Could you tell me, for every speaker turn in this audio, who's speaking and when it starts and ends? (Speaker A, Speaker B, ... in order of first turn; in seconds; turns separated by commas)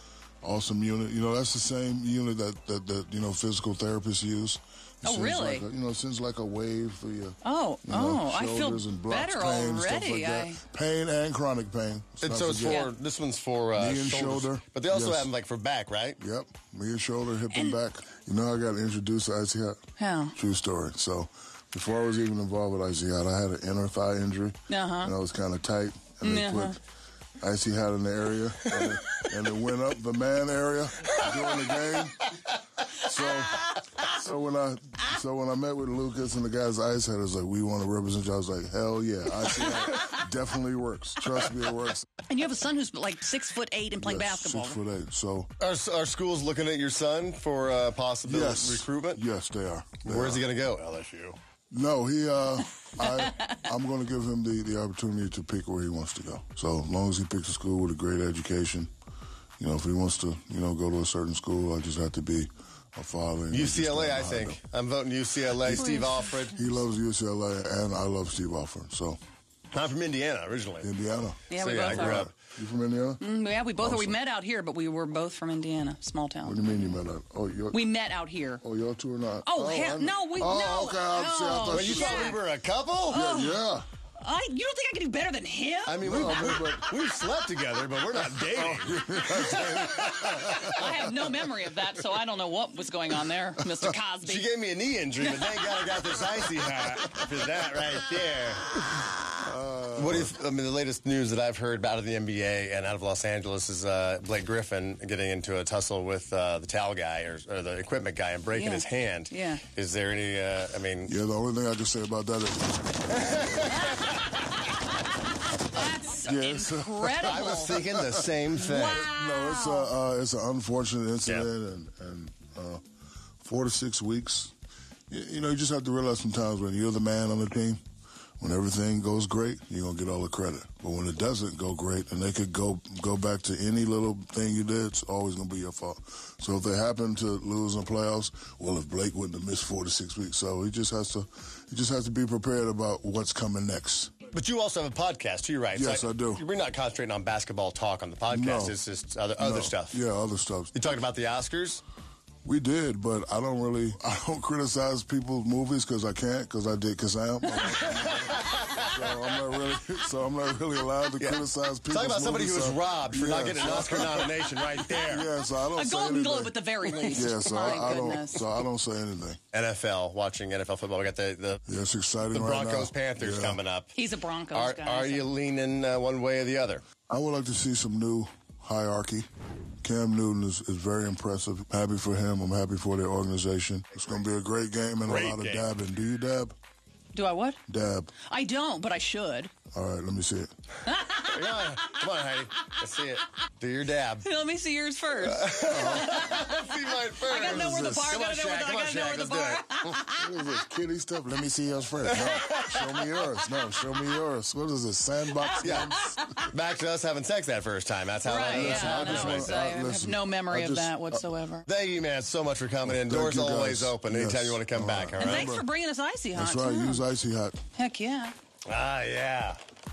Speaker A: 0.4-12.8, Speaker B: 5.0-5.7, Speaker B: 7.4-10.6, Speaker C: 12.2-16.2, Speaker B: 12.6-12.9, Speaker A: 13.8-15.3, Speaker A: 16.2-19.8, Speaker B: 17.5-17.8, Speaker B: 20.0-20.4, Speaker A: 20.3-26.8, Speaker B: 24.7-25.1, Speaker B: 26.2-26.8, Speaker A: 27.4-32.3, Speaker C: 28.7-28.9, Speaker C: 31.1-31.7, Speaker A: 33.0-42.1, Speaker C: 39.6-40.1, Speaker B: 42.3-44.8, Speaker A: 44.0-45.5, Speaker C: 45.6-49.2, Speaker A: 48.2-50.4, Speaker C: 50.0-51.4, Speaker A: 51.7-58.9, Speaker B: 53.0-53.5, Speaker A: 59.6-64.6, Speaker C: 63.5-66.7, Speaker A: 65.6-65.9, Speaker B: 65.7-66.5, Speaker A: 66.5-69.2, Speaker C: 69.7-70.9, Speaker A: 70.8-73.2, Speaker B: 71.5-72.3, Speaker C: 71.5-72.3, Speaker B: 73.2-76.8, Speaker A: 73.8-74.2, Speaker A: 76.4-77.8, Speaker B: 77.7-78.6, Speaker A: 78.6-82.4, Speaker B: 79.4-82.4, Speaker C: 81.7-83.2, Speaker B: 83.1-83.7, Speaker A: 83.1-83.8, Speaker B: 84.2-86.3, Speaker C: 85.8-91.1, Speaker A: 86.0-86.9, Speaker A: 88.5-90.8, Speaker B: 90.3-94.5, Speaker C: 94.2-98.8, Speaker A: 99.4-100.3, Speaker C: 99.9-111.1, Speaker B: 108.5-109.6, Speaker A: 111.0-113.5, Speaker C: 113.2-114.1, Speaker B: 115.6-117.8, Speaker A: 116.2-122.8, Speaker C: 117.2-119.1, Speaker B: 118.6-119.9, Speaker A: 123.4-124.5, Speaker A: 125.1-127.8, Speaker A: 128.4-144.1, Speaker C: 144.3-150.0, Speaker A: 145.7-146.4, Speaker A: 148.3-148.8, Speaker A: 149.4-150.7, Speaker C: 150.7-151.8, Speaker A: 152.4-166.5, Speaker C: 157.5-159.4, Speaker C: 161.2-165.3, Speaker B: 165.6-168.5, Speaker A: 167.0-169.4, Speaker C: 169.5-171.6, Speaker A: 171.7-173.6, Speaker C: 172.3-173.9, Speaker B: 173.9-175.3, Speaker C: 174.5-176.8, Speaker A: 177.1-179.3, Speaker A: 179.8-186.5, Speaker C: 185.0-185.7, Speaker B: 187.1-187.6, Speaker A: 187.7-188.1, Speaker B: 188.2-189.5, Speaker A: 189.7-190.5, Speaker B: 190.8-192.0, Speaker C: 191.2-194.2, Speaker B: 194.2-196.6, Speaker C: 195.2-200.0, Speaker A: 195.7-196.1, Speaker B: 197.2-200.3, Speaker A: 197.4-198.1, Speaker A: 200.2-206.3, Speaker C: 202.1-203.3, Speaker B: 205.4-206.4, Speaker C: 205.6-209.7, Speaker B: 208.2-211.6, Speaker A: 208.5-211.3, Speaker C: 211.7-215.5, Speaker A: 212.8-215.7, Speaker B: 215.2-217.0, Speaker A: 216.3-217.6, Speaker B: 217.8-218.3, Speaker C: 218.7-219.6